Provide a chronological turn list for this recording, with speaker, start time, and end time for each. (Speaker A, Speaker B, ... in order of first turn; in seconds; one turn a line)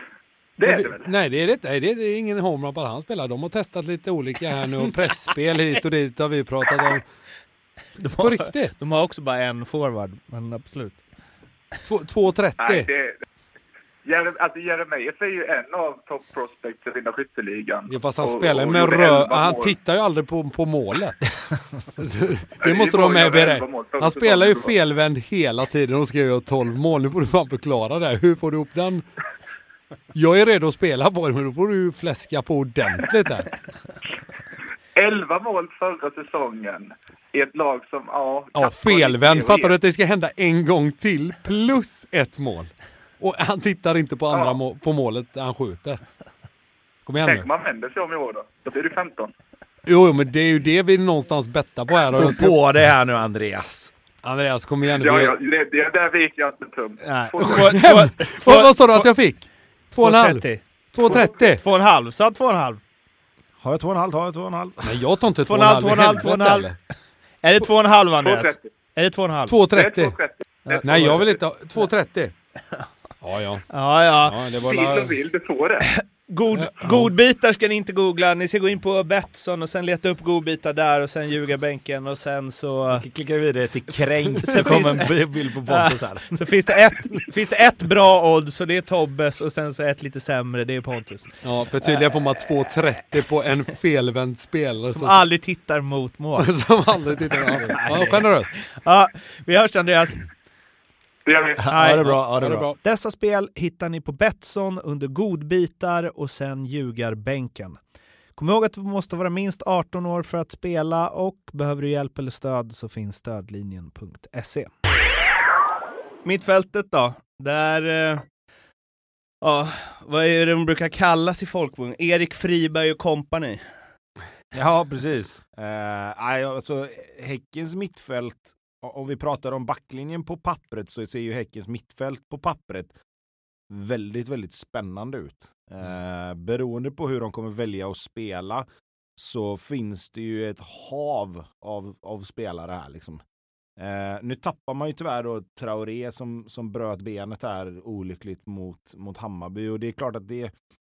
Speaker A: 0.6-1.1
Speaker B: 0.6-7.0
Speaker C: 8.0-11.0
Speaker B: 8.2-8.8
Speaker B: 11.8-12.9
Speaker A: 12.6-13.2
Speaker A: 14.1-19.7
Speaker B: 17.9-29.0
Speaker A: 22.6-24.7
Speaker B: 30.1-33.6
Speaker A: 35.0-39.8
Speaker B: 38.6-46.0
Speaker A: 44.3-44.6
Speaker B: 47.0-47.5
Speaker A: 47.2-49.3
Speaker B: 49.9-52.6
Speaker D: 52.0-53.9
Speaker B: 54.2-55.4
Speaker A: 54.9-57.8
Speaker C: 57.0-59.1
Speaker B: 57.4-61.6
Speaker C: 59.9-62.8
Speaker A: 61.1-61.4
Speaker D: 63.6-65.0
Speaker B: 64.8-66.8
Speaker C: 65.5-66.7
Speaker C: 67.4-69.6
Speaker A: 68.2-68.7
Speaker B: 69.5-70.2
Speaker A: 69.7-71.4
Speaker C: 70.7-71.2
Speaker B: 70.8-72.3
Speaker B: 73.2-73.7
Speaker C: 73.7-74.5
Speaker B: 74.2-75.2
Speaker A: 74.5-75.9
Speaker C: 75.9-83.1
Speaker B: 76.6-77.1
Speaker D: 82.9-86.4
Speaker C: 84.4-91.4
Speaker B: 91.4-95.2
Speaker C: 94.9-100.2
Speaker B: 96.4-98.6
Speaker A: 101.3-101.7
Speaker D: 101.6-102.7
Speaker C: 101.7-107.8
Speaker B: 101.8-102.8
Speaker C: 108.4-114.7
Speaker C: 116.2-118.2
Speaker C: 119.4-123.7
Speaker D: 124.5-133.0
Speaker D: 133.7-143.2
Speaker D: 143.8-150.5